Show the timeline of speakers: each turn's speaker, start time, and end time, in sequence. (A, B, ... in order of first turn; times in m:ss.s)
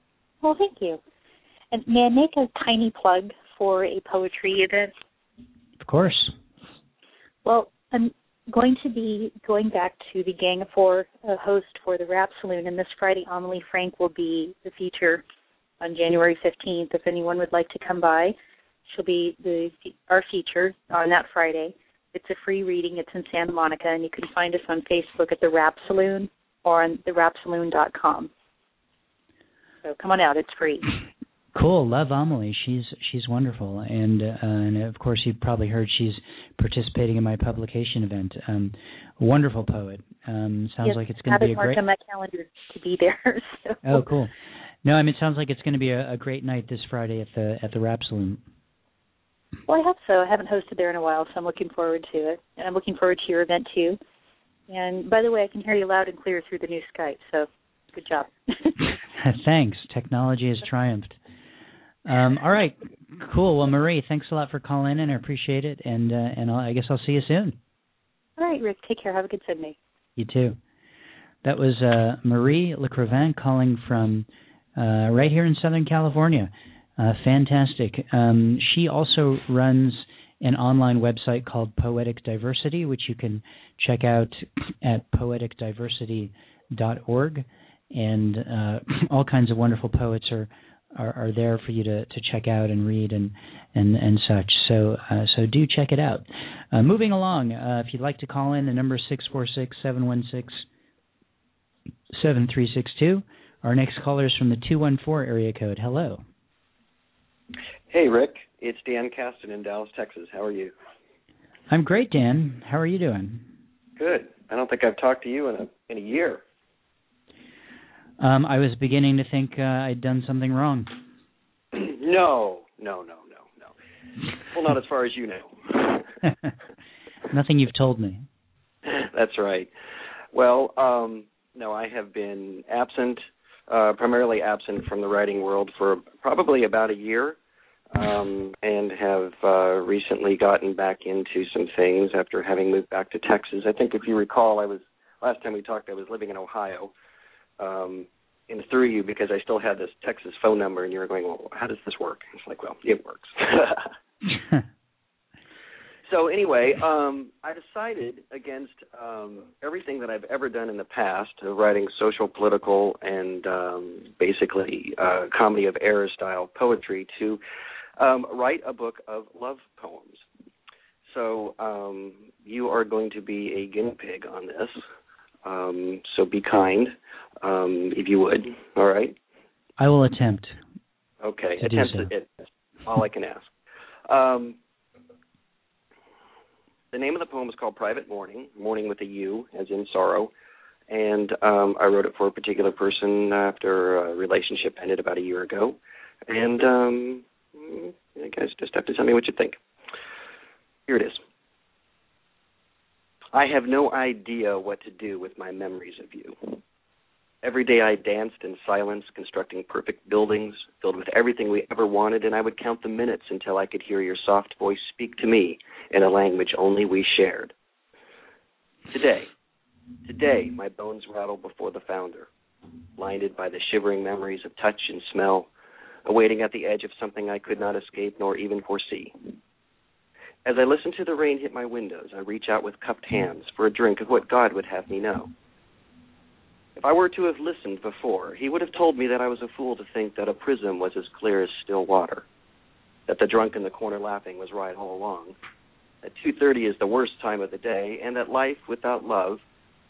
0:00.4-0:01.0 A
0:01.7-0:04.9 A
0:05.8-0:06.3 B
0:07.4-0:15.2 A
0:15.8-0:18.3 A
0:18.9-0:28.3 A
0:29.8-0:30.9 A
0:31.5-0:41.8 B
0:40.8-0:44.0 A
0:43.8-0:44.3 B
0:44.8-0:48.4 B
0:49.7-0:54.0 A
0:54.7-0:58.8 A
0:59.2-1:01.2 B
1:02.0-1:07.6 B
1:08.4-1:09.8 A
1:10.2-1:10.6 B
1:11.4-1:40.6 B
1:42.1-1:46.2 B
1:47.9-1:50.7 C
1:51.7-1:53.4 B
1:54.0-1:56.4 C
1:58.2-2:00.9 B
2:01.7-2:03.7 C
2:04.5-2:06.1 C
2:07.3-2:08.2 B
2:08.8-2:09.7 C
2:10.3-2:17.4 C
2:17.9-2:26.9 C
2:27.6-2:33.9 C
2:36.1-2:47.4 C
2:48.0-2:50.2 C
2:51.1-2:54.8 C
2:55.4-2:59.2 C
2:59.8-3:00.6 B
3:01.2-3:03.5 C
3:01.6-3:02.1 B
3:04.1-3:04.6 C
3:06.9-3:10.3 C
3:10.9-3:19.6 C
3:20.9-3:21.2 C
3:23.3-3:26.6 C
3:27.4-3:37.5 C
3:38.9-3:39.3 C
3:40.0-3:42.3 C
3:43.0-3:45.5 C
3:46.0-3:49.2 C
3:50.4-3:55.3 C
3:56.8-4:02.2 C
4:03.1-4:05.4 C
4:06.0-4:09.4 C